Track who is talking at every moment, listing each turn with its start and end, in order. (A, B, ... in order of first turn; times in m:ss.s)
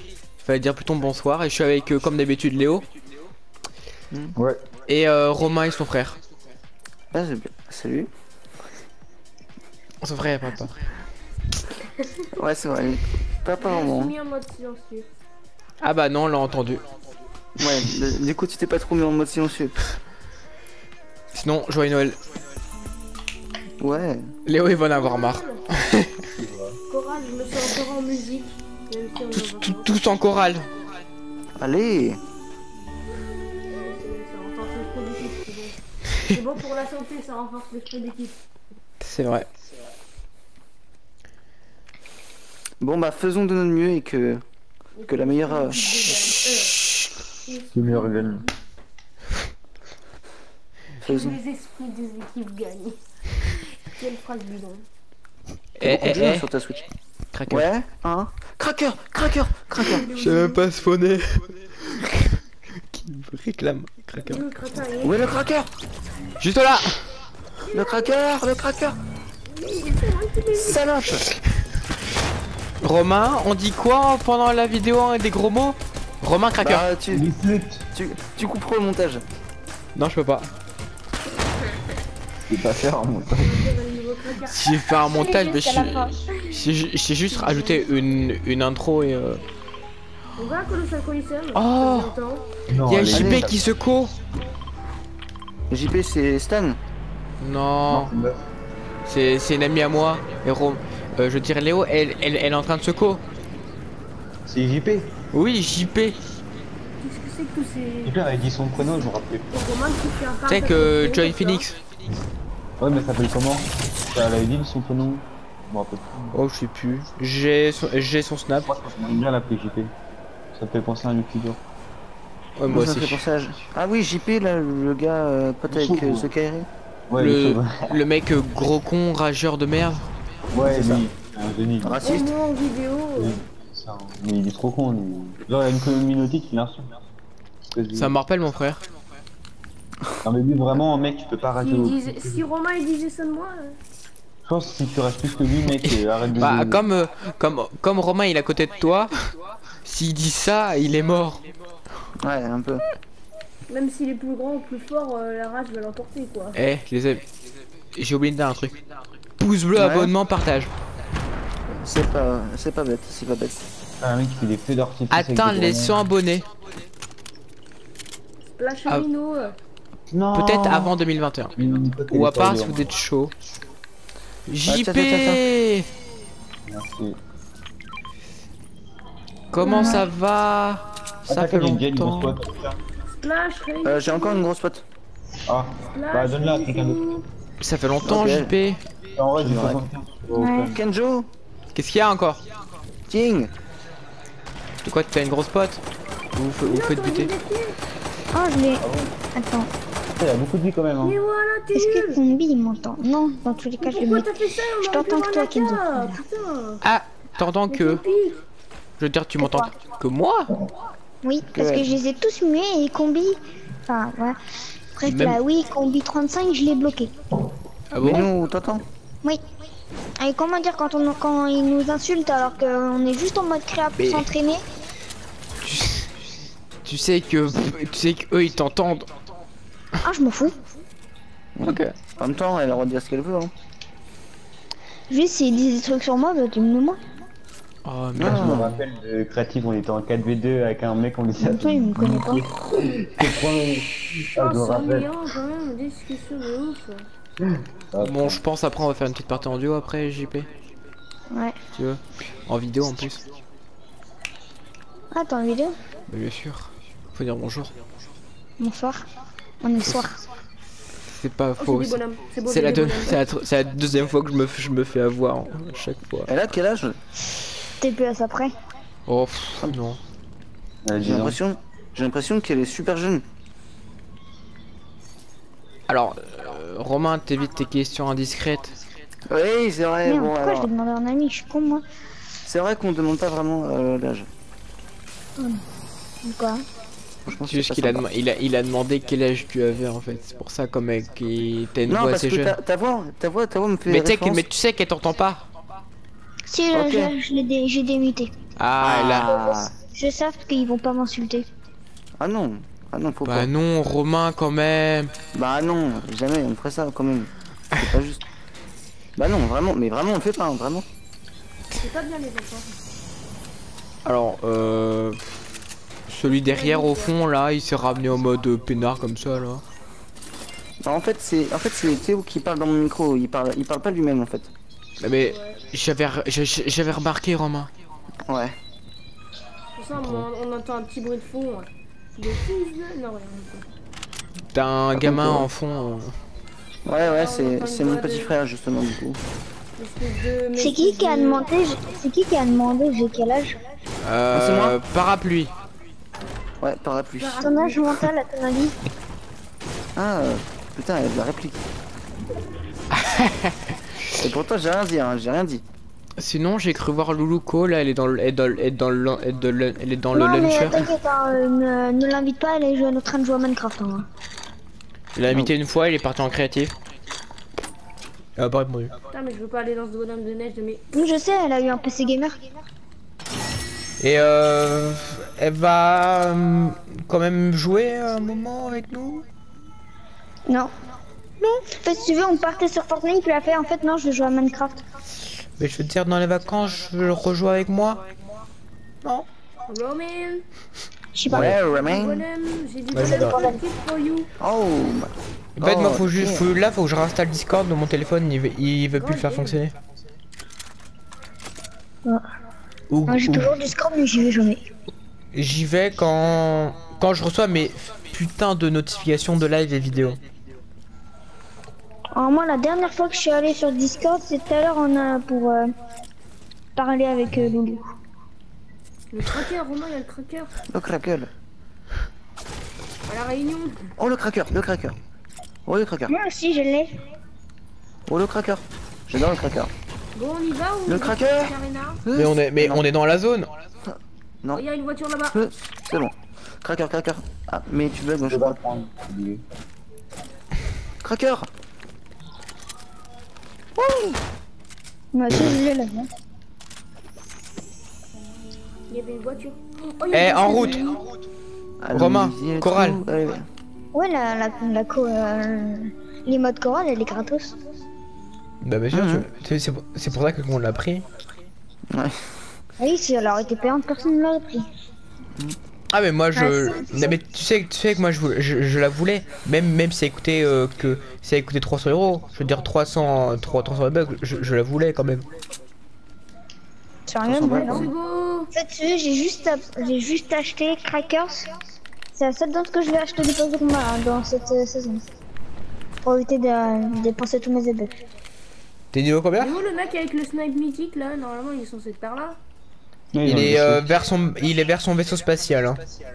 0:00.4-0:02.8 A
0:04.4-0:04.6 B
0:04.9-0:06.2 A
0:07.1-0:08.1 C
0:10.0-0:10.8 A
0:12.4-0:14.1 C
0:13.6-0:15.1 D
0:15.8-0:16.8 A
0:17.6-0:19.7 C
0:21.3-0:22.2 A
0:23.8-0:24.3 C
0:24.4-0:26.1 A
0:24.8-0:25.6 D
0:26.3-0:26.8 B
0:26.9-0:30.0 D
0:29.3-0:30.7 A
0:31.6-0:32.2 C
0:33.7-0:38.4 D
0:39.0-0:39.5 A
0:42.8-0:44.4 C
0:45.0-0:46.8 D
0:45.1-0:46.1 C
0:47.4-0:48.5 D
0:47.7-0:48.4 B
0:51.0-0:51.4 C
0:51.0-0:54.8 D
0:55.8-0:56.4 A
0:55.8-0:56.9 C
0:57.3-0:57.7 A
0:57.5-1:00.1 C
0:59.8-1:00.6 D
1:00.1-1:02.2 A
1:02.9-1:04.4 A
1:04.2-1:05.2 D
1:05.0-1:05.7 C
1:06.4-1:07.0 A
1:07.7-1:08.2 D
1:07.7-1:09.0 C
1:09.5-1:10.8 D
1:10.5-1:11.3 C
1:12.8-1:16.8 A
1:16.6-1:17.3 C
1:17.1-1:17.9 B
1:17.9-1:19.2 C
1:19.9-1:20.5 A
1:22.5-1:23.6 B
1:23.3-1:24.8 D
1:24.4-1:29.4 A
1:25.1-1:26.2 E
1:27.3-1:27.9 D
1:30.4-1:32.4 D
1:31.5-1:32.1 A
1:32.7-1:33.6 B
1:32.8-1:34.1 A
1:33.1-1:33.5 C
1:35.7-1:36.8 C
1:37.4-1:38.1 A
1:37.9-1:38.4 B
1:39.0-1:43.2 A
1:44.4-1:45.1 B
1:45.3-1:46.2 A
1:47.0-1:48.2 D
1:48.0-1:49.4 B
1:49.5-1:51.7 D
1:50.5-1:51.8 A
1:52.8-1:56.3 B
1:56.3-1:58.7 A
1:58.6-1:59.9 B
2:00.5-2:01.6 B
2:02.6-2:03.2 A
2:02.7-2:06.7 C
2:05.7-2:06.3 B
2:07.1-2:07.9 B
2:07.2-2:10.1 A
2:10.5-2:12.1 B
2:10.6-2:11.0 C
2:11.8-2:12.3 C
2:12.0-2:13.4 D
2:13.2-2:17.0 B
2:17.7-2:18.2 B
2:17.9-2:18.8 A
2:20.2-2:22.4 B
2:21.6-2:23.8 D
2:24.4-2:26.8 B
2:25.8-2:29.1 A
2:29.8-2:31.4 A
2:32.2-2:32.8 C
2:33.7-2:36.6 D
2:36.6-2:37.2 A
2:37.9-2:38.8 A
2:39.4-2:40.7 A
2:39.7-2:40.1 C
2:41.8-2:43.6 C
2:44.0-2:46.0 B
2:45.1-2:46.5 A
2:48.5-2:49.6 D
2:50.1-2:50.9 B
2:50.3-2:51.5 A
2:51.6-2:52.9 B
2:52.1-2:53.3 A
2:54.5-2:55.9 A
2:54.6-2:55.4 C
2:56.7-2:57.2 B
2:59.5-3:02.4 A
2:59.6-3:00.1 E
3:01.3-3:02.8 B
3:03.1-3:04.5 D
3:03.8-3:04.8 C
3:05.5-3:07.0 B
3:05.9-3:07.2 D
3:07.6-3:08.8 A
3:08.0-3:08.5 C
3:09.1-3:10.8 B
3:09.4-3:09.8 C
3:10.3-3:10.7 E
3:10.6-3:11.3 C
3:11.7-3:12.4 A
3:13.1-3:13.5 C
3:14.8-3:15.8 A
3:16.3-3:17.3 A
3:16.6-3:17.8 D
3:18.3-3:18.8 E
3:18.8-3:19.1 B
3:19.3-3:19.7 E
3:20.2-3:21.2 B
3:21.0-3:22.2 D
3:21.7-3:26.1 E
3:23.8-3:26.8 D
3:26.8-3:28.0 A
3:27.7-3:28.4 D
3:29.0-3:30.5 A
3:29.4-3:29.7 E
3:31.2-3:34.4 E
3:31.5-3:31.9 C
3:35.0-3:37.1 E
3:35.0-3:35.4 A
3:37.9-3:38.3 A
3:38.0-3:38.8 C
3:40.2-3:44.6 E
3:44.0-3:44.3 A
3:45.6-3:46.1 A
3:46.8-3:49.1 A
3:50.0-3:50.6 E
3:51.6-3:53.5 C
3:51.6-3:51.9 A
3:55.1-3:57.0 E
3:57.8-3:58.8 A
3:58.2-3:58.8 C
3:58.2-4:05.1 B
4:01.4-4:02.5 E
4:04.4-4:07.0 D
4:07.4-4:08.4 B
4:08.0-4:10.5 A
4:11.3-4:11.6 E
4:11.7-4:13.2 A
4:15.1-4:15.7 E
4:16.1-4:17.7 A
4:18.6-4:19.0 E
4:19.6-4:20.2 E
4:21.1-4:26.3 A
4:21.6-4:23.2 D
4:26.3-4:27.0 C
4:27.8-4:28.5 E
4:29.1-4:30.0 A
4:30.8-4:31.4 B
4:31.0-4:33.2 C
4:35.9-4:38.8 A
4:39.3-4:40.7 C
4:40.0-4:41.8 E
4:42.4-4:44.3 C
4:45.4-4:45.6 E
4:46.2-4:46.6 E
4:47.2-4:48.0 C
4:47.4-4:52.6 A
4:51.9-4:54.4 C
4:53.9-4:55.4 A
4:56.5-4:58.3 E
4:56.7-4:57.1 C
4:58.6-4:59.6 A
4:58.8-4:59.7 C
4:59.3-5:01.5 E
5:02.2-5:03.5 C
5:03.2-5:05.1 A
5:05.3-5:08.2 C
5:09.2-5:10.8 C
5:11.8-5:12.7 D
5:14.0-5:15.2 A
5:16.1-5:19.6 A
5:16.2-5:17.1 D
5:20.8-5:24.5 C
5:25.0-5:27.7 A
5:25.2-5:25.6 D
5:28.2-5:28.6 C
5:29.8-5:33.6 D
5:30.0-5:30.3 A
5:34.5-5:36.1 A
5:35.0-5:35.5 C
5:36.8-5:39.2 C
5:37.2-5:38.3 D
5:39.8-5:41.5 D
5:40.6-5:43.6 E
5:44.0-5:45.5 A
5:44.3-5:44.8 C
5:46.6-5:47.4 C
5:47.2-5:47.9 D
5:47.4-5:48.8 E
5:50.0-5:51.6 C
5:52.9-5:53.7 A
5:54.2-5:55.6 C
5:56.2-6:00.9 A
6:00.1-6:04.1 E
6:05.1-6:06.7 A
6:08.4-6:08.9 A
6:09.1-6:10.8 D
6:10.9-6:12.4 E
6:14.0-6:19.2 A
6:20.5-6:20.7 E
6:21.4-6:21.7 A
6:21.7-6:24.8 E
6:25.6-6:28.0 A
6:29.7-6:30.4 D
6:31.1-6:31.5 E
6:31.3-6:31.6 A
6:31.3-6:32.2 C
6:31.7-6:34.3 D
6:32.9-6:33.4 A
6:33.0-6:33.6 E
6:34.4-6:36.4 C
6:35.6-6:39.7 A
6:39.0-6:39.6 D
6:42.9-6:43.5 A
6:43.1-6:44.6 E
6:45.3-6:50.2 A
6:52.1-6:55.7 E
6:56.8-6:57.8 E
6:59.1-7:00.5 D
7:00.7-7:01.3 C
7:03.1-7:03.9 D
7:04.0-7:05.0 C
7:05.6-7:06.1 C
7:06.1-7:07.0 E
7:08.1-7:09.7 C
7:10.1-7:12.0 D
7:10.9-7:12.8 C
7:12.1-7:13.5 A
7:13.8-7:14.6 C
7:14.5-7:15.4 D
7:15.3-7:18.6 C
7:18.3-7:19.4 B
7:21.0-7:21.5 C
7:23.8-7:24.2 C
7:25.1-7:26.1 E
7:28.9-7:31.0 D
7:30.1-7:30.9 A
7:31.8-7:33.5 C
7:31.9-7:33.0 A
7:33.9-7:37.6 E
7:38.6-7:41.0 A
7:38.9-7:39.3 C
7:41.9-7:42.2 C
7:42.8-7:44.7 E
7:45.9-7:55.2 A
7:46.3-7:47.1 E
7:57.1-7:57.9 E
7:57.2-7:57.9 C
7:57.5-7:58.5 D
7:58.5-8:01.5 E
8:02.1-8:05.0 E
8:06.0-8:08.0 E
8:08.9-8:09.5 A
8:09.4-8:12.4 D
8:13.1-8:13.8 B
8:13.2-8:15.8 A